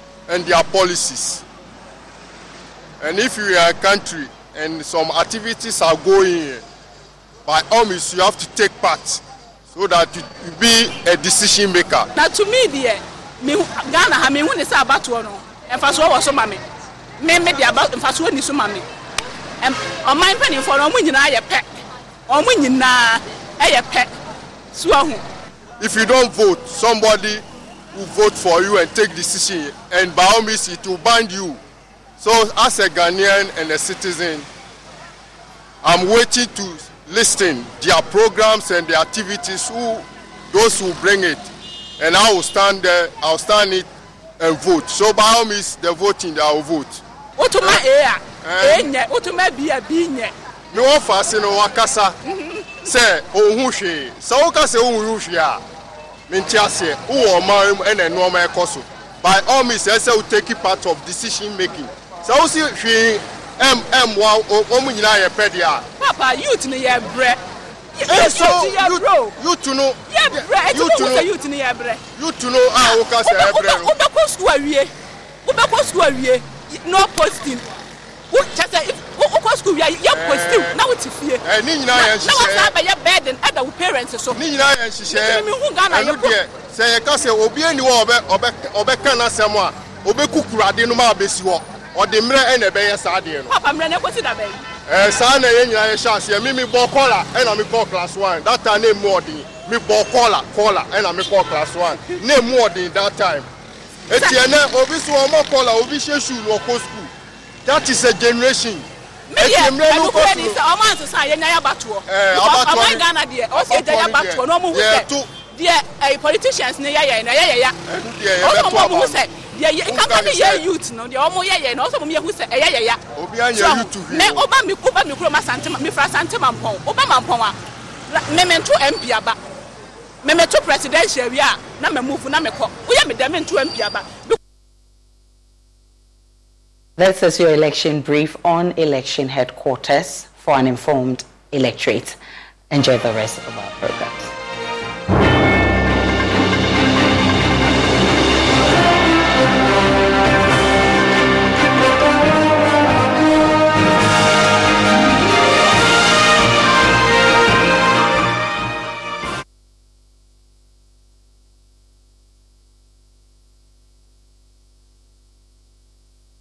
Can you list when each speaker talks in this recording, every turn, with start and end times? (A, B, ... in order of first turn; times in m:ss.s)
0:00.3-0:01.4 A
0:03.0-0:06.6 A
0:07.5-0:12.1 A
0:12.2-0:16.6 B
0:17.2-0:18.8 B
0:19.6-0:24.1 B
0:24.7-0:25.2 B
0:25.8-0:31.6 A
0:32.2-0:34.5 A
0:35.8-0:43.9 A
0:44.4-0:47.0 A
0:47.4-0:50.3 B
0:48.4-0:48.9 A
0:50.7-0:52.2 A
0:52.2-0:52.7 B
0:52.8-0:55.6 A
0:56.3-1:05.8 A
1:06.0-1:07.4 B
1:07.9-1:09.4 B
1:08.1-1:11.3 A
1:10.1-1:12.0 B
1:12.2-1:13.9 A
1:12.8-1:14.9 B
1:15.4-1:17.7 B
1:18.3-1:24.4 B
1:20.1-1:20.8 A
1:21.4-1:22.7 A
1:24.3-1:33.5 A
1:25.1-1:26.3 B
1:33.5-1:34.6 B
1:34.9-1:43.4 A
1:44.1-1:47.1 A
1:44.1-1:44.4 B
1:47.6-1:48.9 A
1:49.3-1:57.8 B
1:49.4-1:50.6 A
1:52.1-1:55.3 A
1:57.8-1:59.2 A
1:58.4-2:03.0 B
1:59.8-2:00.6 A
2:03.2-2:04.4 A
2:03.5-2:07.6 B
2:08.1-2:09.4 B
2:10.2-2:14.4 B
2:17.0-2:22.2 C
2:22.7-2:24.3 C